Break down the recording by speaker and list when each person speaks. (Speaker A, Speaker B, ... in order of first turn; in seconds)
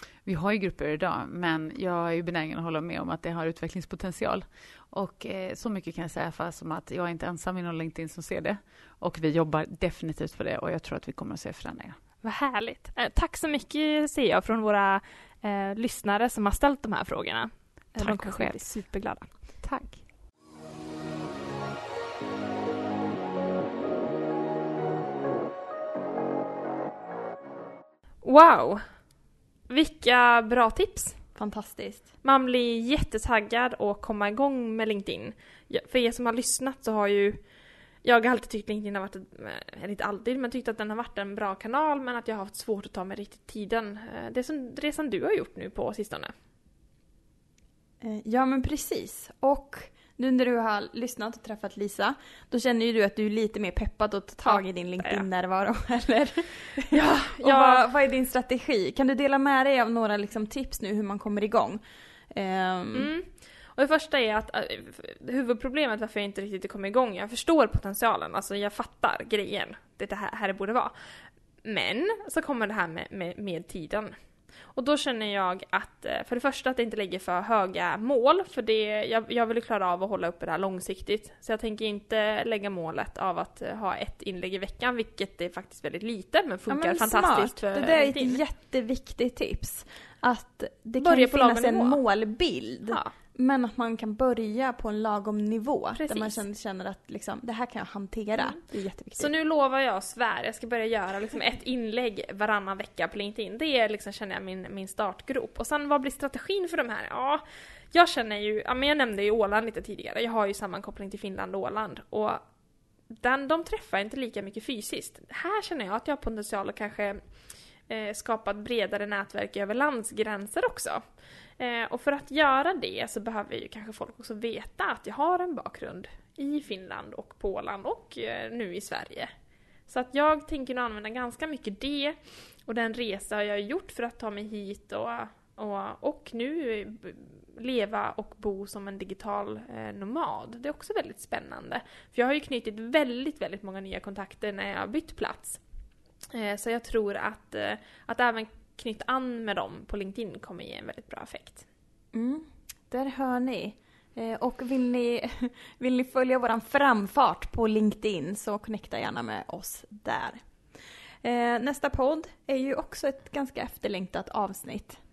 Speaker A: 0.2-12.0, 18.0-18.6, 19.6-20.0
Speaker B: 12.2-19.3, 28.2-28.9, 29.7-31.2, 32.2-37.4, 38.0-46.3, 54.5-55.3, 56.9-57.9, 62.9-74.1, 74.7-88.4, 91.0-92.0, 92.9-93.1, 96.0-96.4, 99.2-112.4, 113.1-117.2, 117.9-129.3, 129.9-145.6, 146.3-151.7
Speaker C: 31.4-32.1, 48.0-61.8, 62.3-63.1, 86.7-99.3, 152.1-160.4, 161.2-165.0